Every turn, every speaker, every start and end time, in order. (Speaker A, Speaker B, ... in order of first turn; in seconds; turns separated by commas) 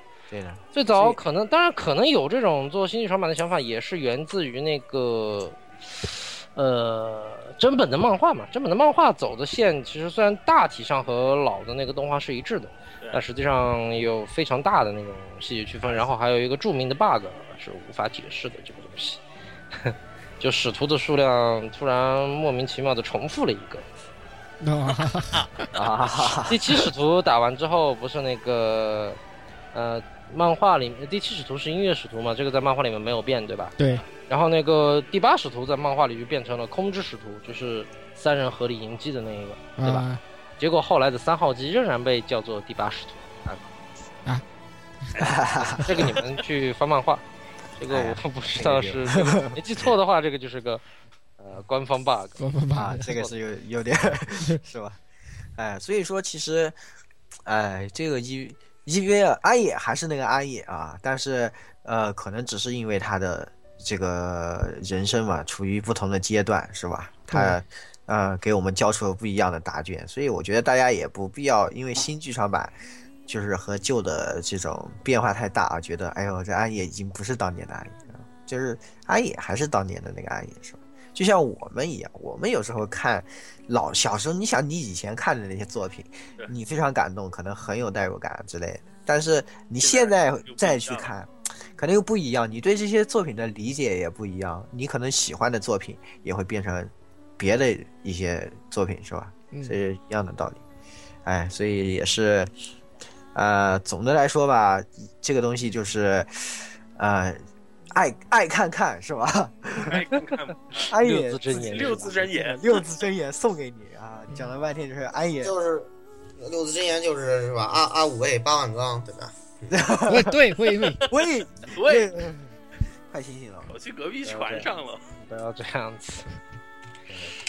Speaker A: 0.3-1.2, Speaker B: 0.7-19.2, Speaker B: 19.7-23.9, Speaker C: 24.6-25.4, Speaker A: 25.7-26.6, Speaker B: 26.5-29.2, Speaker B: 29.7-40.1, Speaker C: 33.8-34.0, Speaker C: 39.8-40.2, Speaker B: 40.6-43.5, Speaker D: 45.1-45.7, Speaker A: 45.2-46.1, Speaker B: 45.9-47.2, Speaker B: 47.8-50.8, Speaker A: 47.9-49.6, Speaker B: 51.4-52.4, Speaker C: 52.4-53.1, Speaker A: 52.7-55.0, Speaker B: 53.0-53.3, Speaker A: 55.5-56.8, Speaker A: 57.4-72.7, Speaker C: 67.3-67.6, Speaker A: 73.3-100.6, Speaker D: 89.8-91.1, Speaker C: 99.5-99.8, Speaker A: 101.2-102.5, Speaker A: 103.3-110.0, Speaker D: 109.8-110.9, Speaker A: 110.9-115.5, Speaker B: 111.0-112.2, Speaker D: 111.5-112.8, Speaker E: 115.4-119.8, Speaker A: 119.7-120.3, Speaker C: 120.1-121.0, Speaker A: 121.0-122.5, Speaker D: 121.7-122.1, Speaker A: 123.1-123.7, Speaker D: 123.7-125.0, Speaker B: 124.2-126.3